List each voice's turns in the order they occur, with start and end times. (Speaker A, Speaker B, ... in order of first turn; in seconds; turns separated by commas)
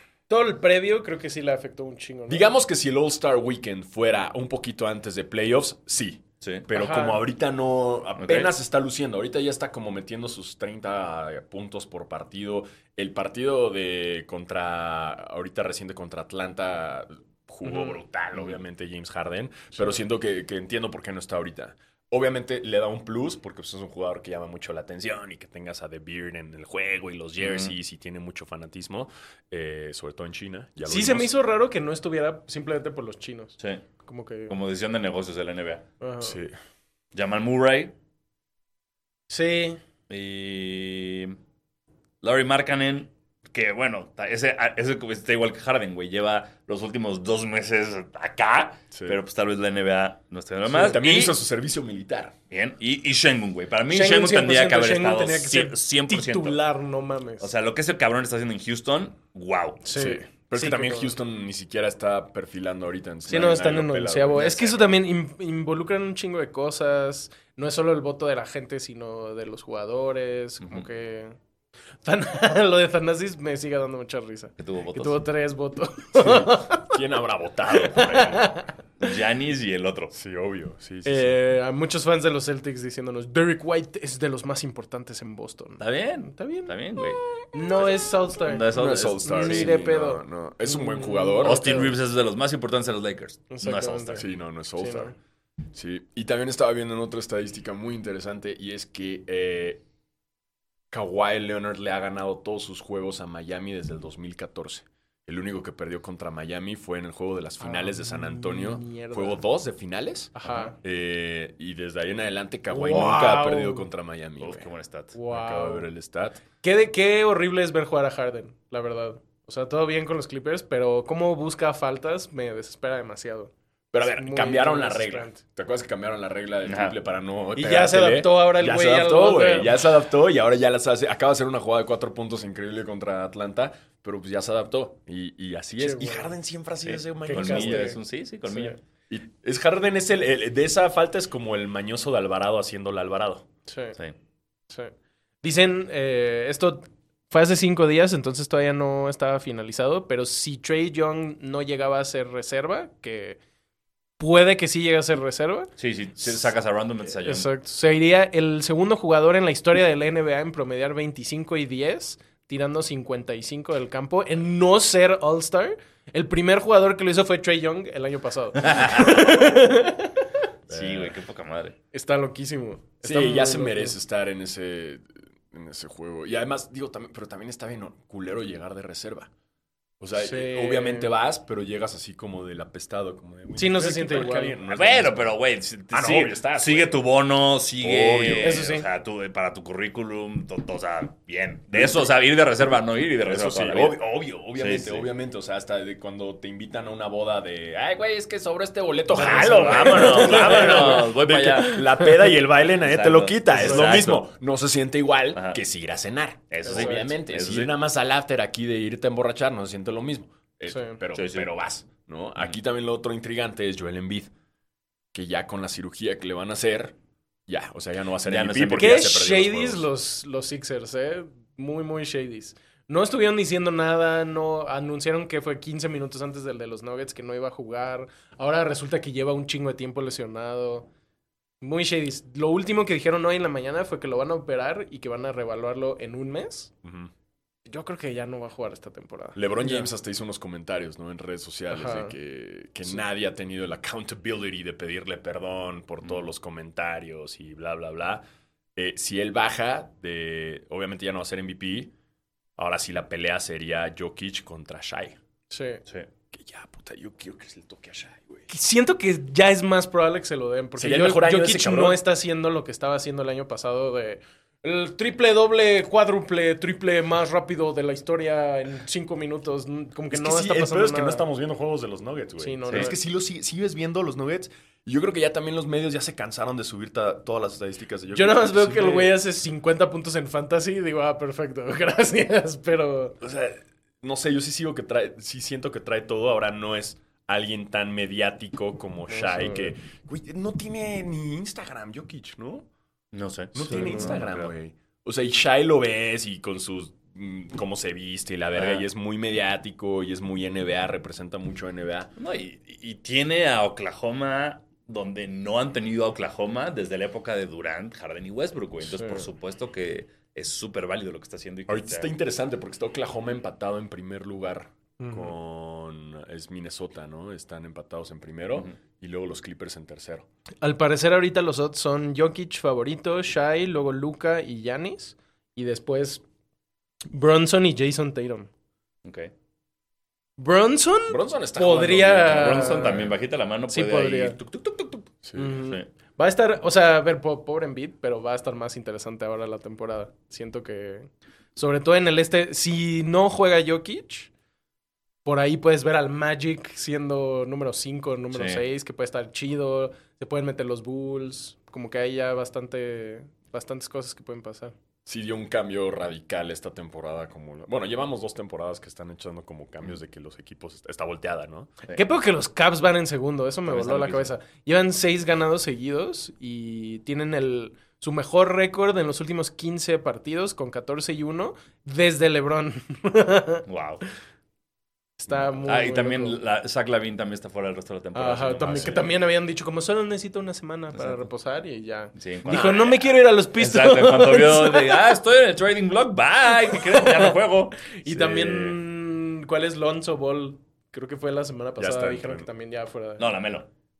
Speaker A: 0.3-2.5, Speaker B: 2.3-31.3, Speaker C: 6.4-6.7, Speaker A: 6.7-7.2, Speaker C: 8.2-8.5, Speaker A: 17.6-18.0, Speaker C: 18.3-18.6, Speaker C: 27.4-27.7, Speaker A: 30.8-34.5, Speaker C: 33.6-33.8, Speaker C: 34.5-35.8, Speaker A: 36.0-36.4, Speaker B: 36.2-36.5, Speaker C: 37.1-37.9, Speaker A: 39.3-39.8, Speaker C: 40.1-41.4, Speaker C: 42.2-51.4, Speaker B: 48.9-49.2, Speaker B: 50.7-52.3, Speaker A: 50.7-51.0, Speaker C: 52.5-56.6, Speaker A: 53.9-57.5, Speaker C: 57.4-59.9, Speaker A: 59.8-61.1, Speaker B: 59.9-64.7, Speaker A: 63.3-71.3, Speaker C: 64.4-64.9, Speaker C: 70.6-70.9, Speaker A: 72.0-77.0, Speaker C: 74.6-75.2, Speaker B: 76.1-78.5, Speaker A: 77.9-78.7, Speaker C: 79.0-80.1, Speaker B: 80.1-81.3, Speaker A: 81.0-86.7, Speaker C: 85.8-87.2, Speaker A: 87.5-88.7, Speaker C: 87.7-89.8, Speaker B: 88.7-91.9, Speaker A: 89.2-91.9, Speaker C: 91.4-94.2, Speaker A: 93.5-94.2, Speaker B: 94.2-95.1, Speaker A: 94.8-95.1, Speaker B: 95.7-99.8, Speaker B: 100.9-114.7, Speaker A: 107.6-109.4, Speaker A: 110.3-110.8, Speaker A: 112.7-113.9, Speaker C: 114.4-115.1, Speaker A: 115.1-115.8, Speaker B: 115.3-116.4, Speaker A: 116.6-123.5, Speaker B: 123.9-137.9, Speaker A: 124.1-125.4, Speaker C: 126.6-127.0, Speaker A: 127.5-129.7, Speaker A: 135.8-136.3, Speaker C: 136.8-138.8, Speaker A: 137.2-138.8, Speaker B: 139.1-143.4, Speaker A: 143.7-143.9, Speaker A: 145.4-153.4, Speaker A: 154.2-156.4, Speaker C: 155.8-157.5, Speaker A: 157.2-170.2, Speaker C: 168.6-169.2, Speaker B: 170.7-171.1, Speaker C: 170.7-171.7, Speaker A: 171.9-173.9, Speaker B: 173.0-179.3, Speaker B: 180.0-185.3, Speaker A: 180.2-181.1, Speaker A: 183.6-184.6, Speaker C: 184.7-194.0, Speaker B: 185.9-186.9, Speaker B: 187.8-188.6, Speaker A: 188.4-188.9, Speaker B: 191.7-192.1, Speaker B: 193.2-214.3, Speaker C: 194.5-195.1, Speaker C: 199.1-202.0, Speaker A: 199.1-201.1, Speaker C: 202.7-204.2, Speaker A: 203.5-204.0, Speaker C: 205.3-205.6, Speaker C: 206.5-207.7, Speaker A: 206.6-207.1, Speaker A: 210.7-211.0, Speaker C: 211.1-211.5, Speaker B: 215.1-216.9, Speaker B: 217.5-219.9, Speaker C: 218.2-219.1, Speaker A: 218.8-230.9, Speaker A: 231.6-236.7, Speaker B: 236.8-237.1, Speaker A: 237.7-239.9, Speaker B: 239.3-248.2, Speaker A: 241.7-242.1, Speaker B: 248.8-251.9, Speaker B: 252.6-255.2, Speaker A: 255.5-255.8, Speaker B: 256.3-258.5, Speaker A: 258.5-271.3, Speaker B: 260.8-262.0, Speaker B: 270.1-279.2, Speaker A: 272.4-273.0, Speaker A: 278.1-283.2, Speaker B: 283.2-292.7, Speaker A: 289.1-289.7, Speaker C: 293.1-294.5, Speaker B: 293.5-302.1, Speaker A: 293.7-294.1, Speaker C: 298.5-298.9, Speaker C: 302.2-312.1, Speaker A: 308.9-309.2, Speaker B: 311.7-320.2, Speaker A: 315.0-315.3, Speaker A: 320.6-326.2, Speaker A: 327.1-328.5, Speaker C: 329.0-329.3, Speaker A: 330.4-333.1, Speaker B: 331.1-333.1, Speaker C: 332.3-335.1, Speaker A: 333.7-334.4, Speaker B: 335.2-335.5, Speaker A: 335.4-344.3, Speaker A: 345.2-354.7, Speaker C: 348.3-348.6, Speaker B: 355.1-361.7, Speaker A: 361.9-373.6, Speaker C: 363.7-364.3, Speaker C: 373.6-374.0, Speaker A: 375.2-376.4, Speaker C: 375.6-379.1, Speaker A: 378.1-385.0, Speaker C: 380.9-381.2, Speaker C: 382.1-387.8, Speaker B: 382.5-382.8, Speaker A: 386.9-387.3, Speaker A: 387.9-393.3, Speaker B: 388.1-388.8, Speaker B: 391.8-392.4, Speaker C: 393.2-393.7